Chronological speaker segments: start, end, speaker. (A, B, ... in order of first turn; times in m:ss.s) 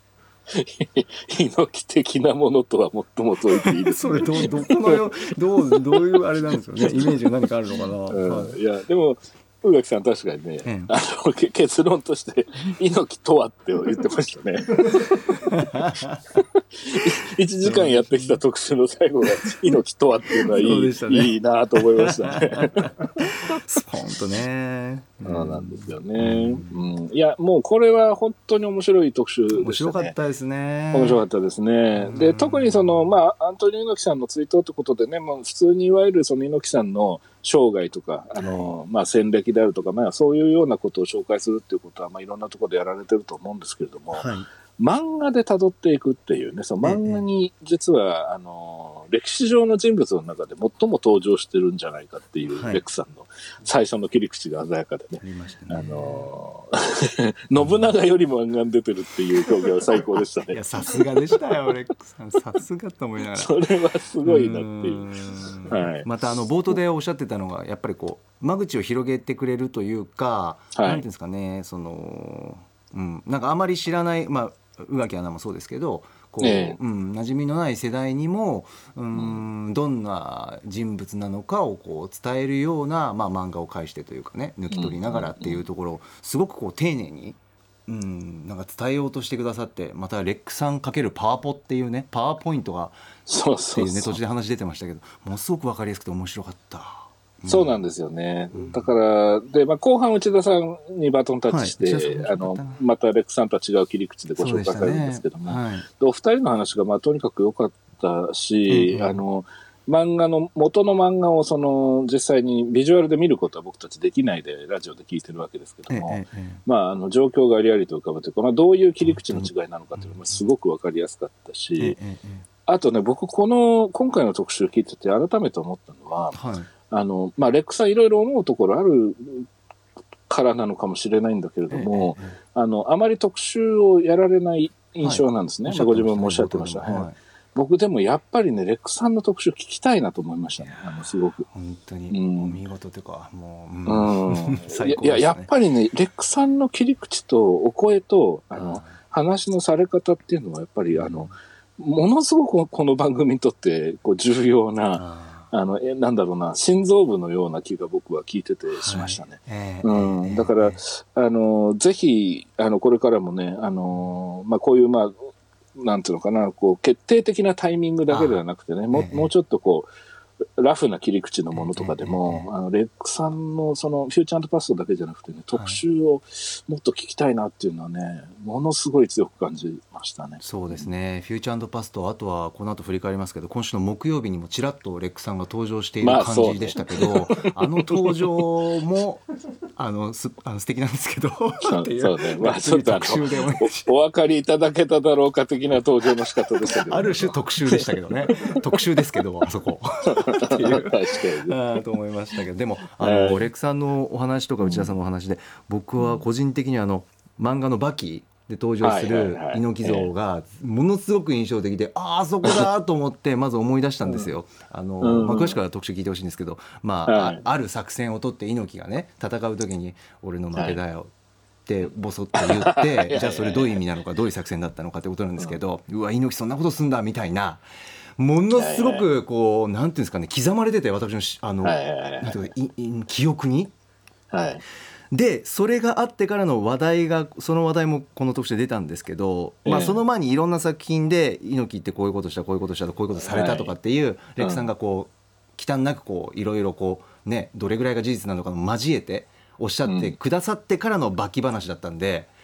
0:00.5-0:05.0 A
0:03.6-0:08.6 B
0:06.8-0:07.1 A
0:08.1-0:15.1 A
0:10.6-0:10.9 B
0:14.9-0:16.2 B
0:16.4-0:22.9 A
0:17.6-0:18.4 B
0:20.3-0:26.7 B
0:25.2-0:30.2 A
0:29.5-0:31.2 B
0:30.9-1:00.6 A
0:32.0-0:33.1 B
0:38.4-0:38.7 B
0:44.1-0:44.5 B
0:46.8-0:47.2 B
0:52.5-0:52.8 B
0:55.2-0:56.3 B
0:57.6-0:57.9 B
1:00.5-1:03.6 B
1:03.4-1:06.1 A
1:04.2-1:33.1 B
1:10.8-1:11.0 A
1:16.4-1:16.8 A
1:19.1-1:19.4 A
1:24.7-1:25.6 A
1:33.3-1:34.2 A
1:33.7-1:37.8 B
1:37.5-2:02.0 A
1:38.5-1:38.9 B
1:41.5-1:42.8 B
1:44.4-1:45.9 B
1:48.7-1:49.2 B
1:55.9-1:56.6 B
1:59.0-2:00.2 B
2:01.8-2:02.4 B
2:02.7-2:06.4 A
2:06.3-2:06.7 B
2:06.9-2:09.5 A
2:10.3-2:21.5 A
2:11.7-2:12.4 B
2:15.0-2:17.2 B
2:21.5-2:25.5 B
2:22.1-2:22.6 A
2:23.9-2:49.9 A
2:28.6-2:29.0 B
2:30.9-2:31.3 B
2:34.9-2:35.5 B
2:38.7-2:40.8 B
2:48.1-2:48.4 B
2:48.9-2:49.3 B
2:50.6-3:00.8 A
2:51.5-2:52.5 B
2:55.5-2:55.8 B
3:00.4-3:13.9 B
3:06.0-3:08.2 A
3:11.6-3:18.6 A
3:16.9-3:41.1 B
3:20.1-3:21.8 A
3:23.0-3:23.4 A
3:24.6-3:24.9 A
3:28.8-3:30.1 A
3:35.0-3:35.6 A
3:37.1-3:37.4 A
3:41.7-3:47.6 B
3:42.4-3:43.8 A
3:48.2-3:53.7 B
3:48.5-3:49.1 A
3:51.6-3:52.4 A
3:54.3-3:54.6 A
3:55.1-4:12.3 B
3:59.6-4:00.0 A
4:03.2-4:03.7 A
4:04.4-4:04.7 A
4:09.8-4:10.1 A